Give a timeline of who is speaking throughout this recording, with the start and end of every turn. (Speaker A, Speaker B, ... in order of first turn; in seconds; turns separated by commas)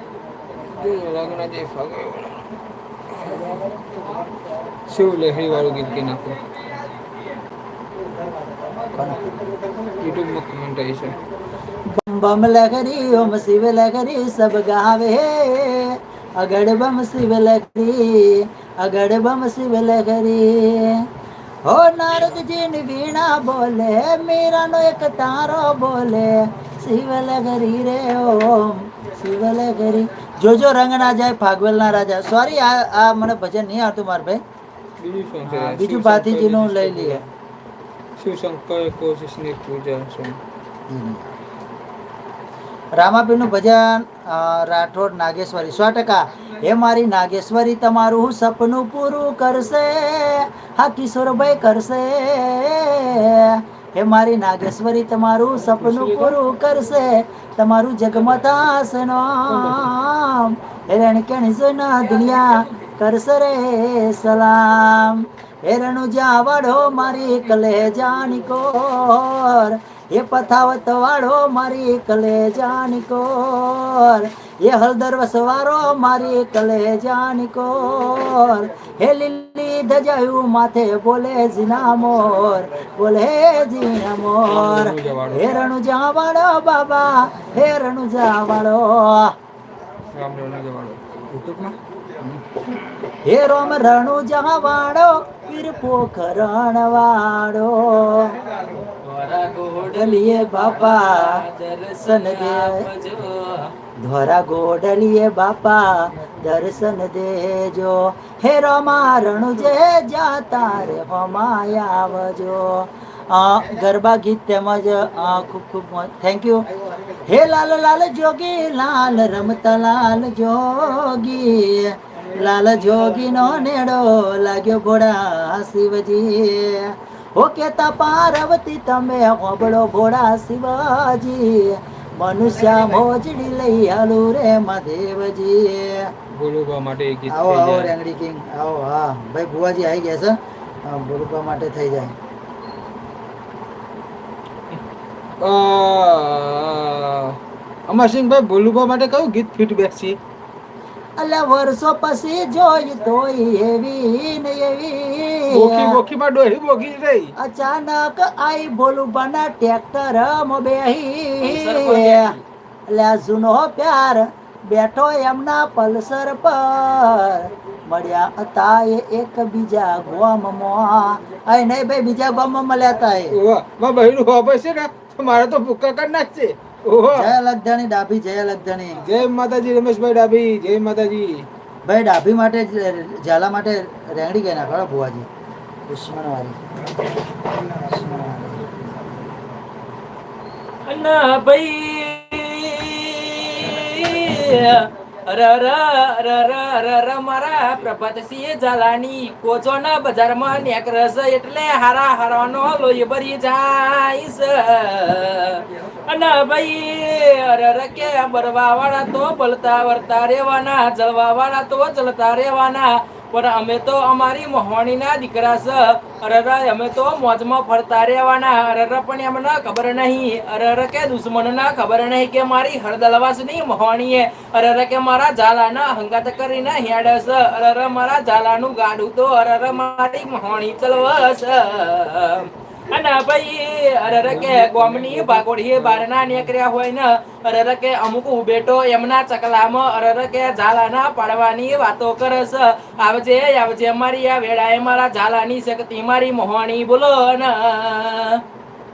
Speaker A: 0.7-2.5, Speaker A: 3.1-3.6, Speaker A: 4.9-6.4, Speaker B: 8.9-9.4, Speaker A: 10.0-11.2, Speaker B: 11.9-21.0, Speaker B: 21.6-34.4, Speaker A: 35.0-37.3, Speaker B: 35.5-37.2, Speaker A: 38.2-40.4, Speaker B: 40.9-41.4, Speaker B: 43.0-89.3, Speaker A: 55.8-56.4, Speaker A: 59.5-59.9, Speaker A: 84.5-85.7, Speaker A: 90.1-91.0, Speaker B: 91.3-92.4, Speaker B: 93.2-98.4, Speaker C: 99.0-103.7, Speaker B: 99.9-101.4, Speaker B: 102.0-102.9, Speaker B: 104.0-116.7, Speaker B: 117.2-136.1, Speaker A: 136.3-137.9, Speaker B: 137.3-142.1, Speaker A: 145.4-150.2, Speaker B: 151.2-156.0, Speaker A: 155.5-157.3, Speaker B: 157.4-162.3, Speaker C: 161.4-162.4, Speaker B: 162.9-173.4, Speaker A: 173.3-177.3, Speaker B: 177.1-179.0, Speaker A: 179.0-181.5, Speaker B: 181.8-185.3, Speaker B: 185.9-186.6, Speaker B: 187.8-188.7, Speaker C: 190.9-248.4, Speaker A: 234.3-236.5